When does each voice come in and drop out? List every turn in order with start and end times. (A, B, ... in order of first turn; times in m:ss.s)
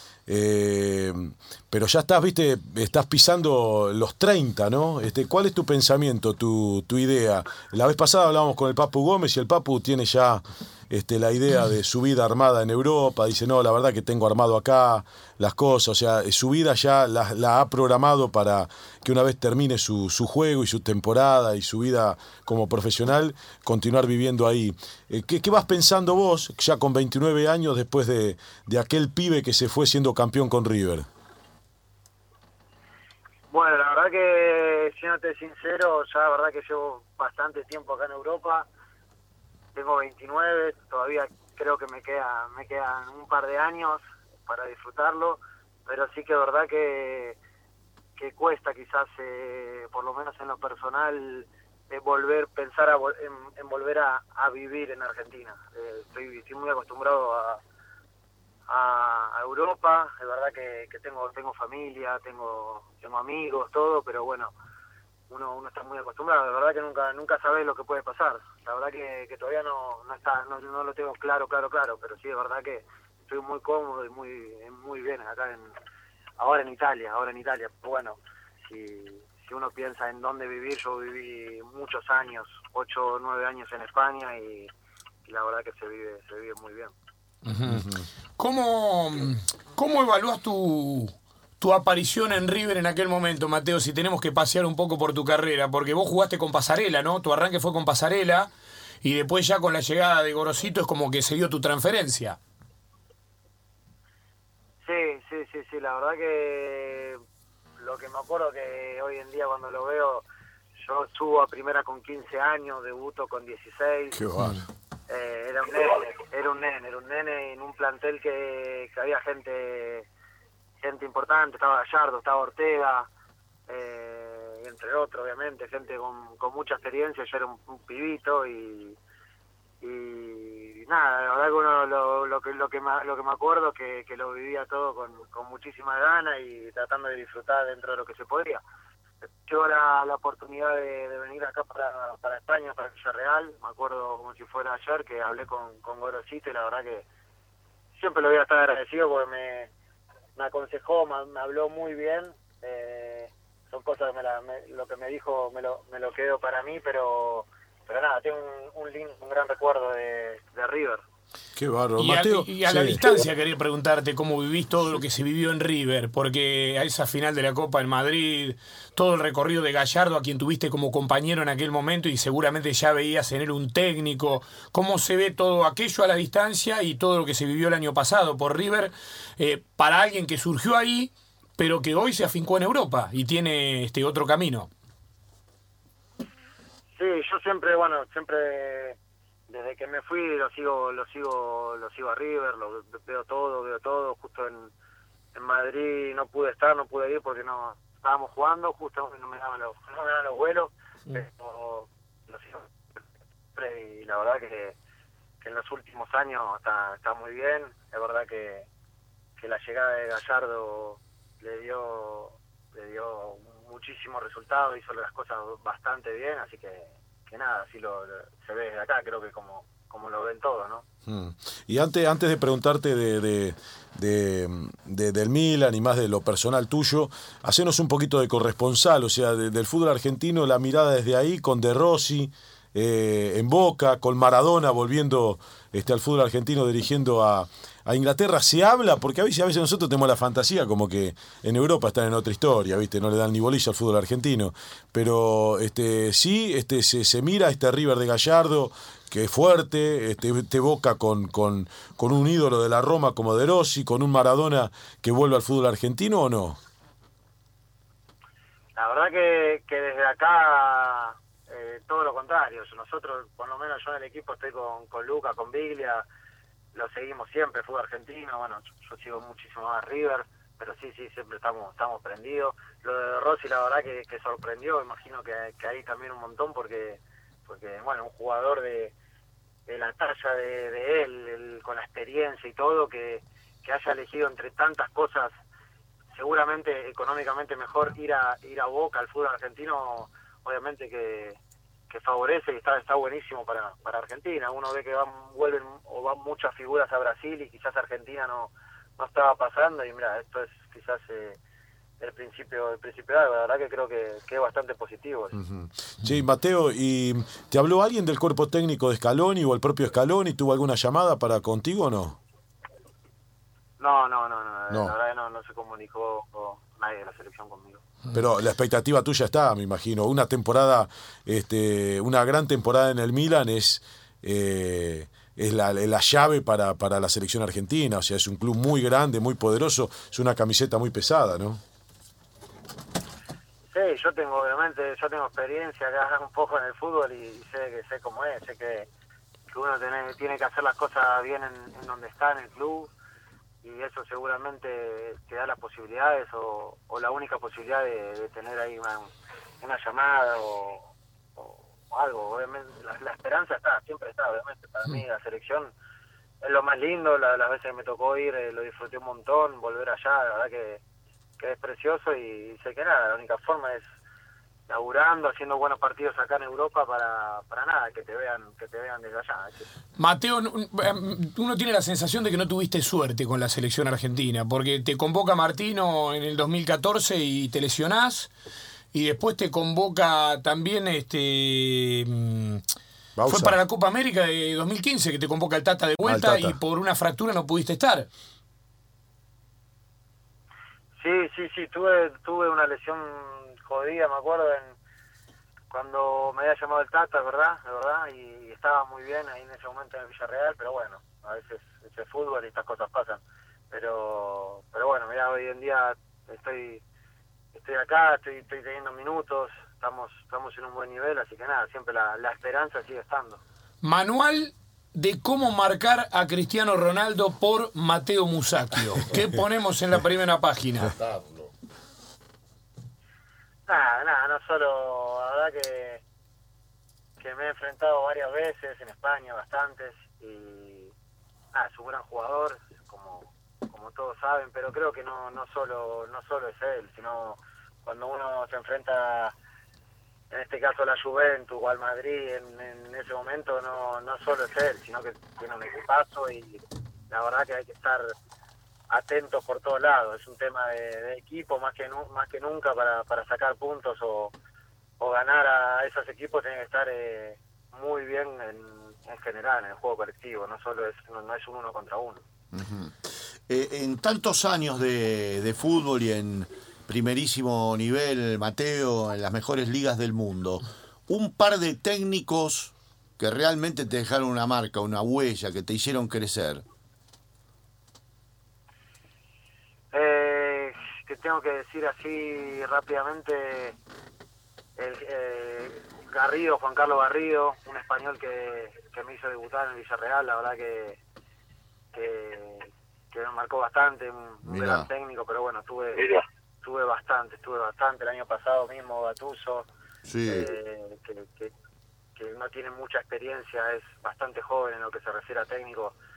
0:00.3-0:31.1 A
0:33.5-0:38.7 B
0:39.7-0:47.4 B
0:48.2-0:57.6 B
0:58.7-1:04.5 B
1:05.3-1:15.7 B
1:16.4-1:24.7 B
1:25.2-1:26.9 B
1:27.4-1:38.5 C
1:27.7-1:28.0 A
1:39.0-1:42.4 C
1:44.8-1:47.2 B
1:47.8-1:50.2 B
1:50.8-1:54.2 B
1:54.1-1:54.6 A
1:55.1-2:00.1 B
2:00.8-2:03.1 B
2:03.7-2:09.0 B
2:09.8-2:18.6 B
2:19.2-2:27.0 B
2:27.9-2:29.7 B
2:30.4-2:41.0 B
2:41.6-2:43.2 A
2:42.0-3:04.7 C
3:07.0-3:09.0 B
3:09.5-3:14.7 B
3:15.3-3:23.0 B
3:23.5-3:24.8 B
3:25.4-3:28.7 B
3:29.4-3:40.8 B
3:41.0-4:16.6 A
4:18.8-4:26.0 B
4:26.7-4:38.9 B
4:39.7-4:45.3 B
4:46.1-4:51.4 B
4:51.9-5:01.4 B
5:02.0-5:05.4 B
5:05.4-5:12.2 A
5:13.8-5:17.8 B
5:14.7-5:14.9 A
5:18.1-5:31.6 A
5:33.7-5:38.9 B
5:39.5-5:42.9 B
5:43.6-5:55.7 B
5:56.4-6:00.8 B
6:01.4-6:03.9 B
6:04.7-6:09.6 B
6:10.0-6:18.3 C
6:18.9-6:22.6 C
6:23.2-6:23.6 A
6:23.3-6:28.1 C
6:26.0-6:26.6 A
6:31.0-6:34.7 B
6:35.7-6:46.8 B
6:47.5-6:53.4 B
6:53.8-7:00.9 C
7:00.9-7:01.5 D
7:03.7-7:06.0 B
7:07.2-7:10.9 B
7:11.5-7:19.3 B
7:20.3-7:28.1 B
7:28.9-7:34.3 B
7:35.0-7:42.2 B
7:42.5-7:42.9 D
7:43.5-7:56.6 D
7:59.9-8:03.8 B
8:04.8-8:11.0 B
8:11.9-8:19.7 B
8:14.4-8:14.9 D
8:20.0-8:20.5 D
8:20.3-8:21.5 B
8:22.2-8:25.9 B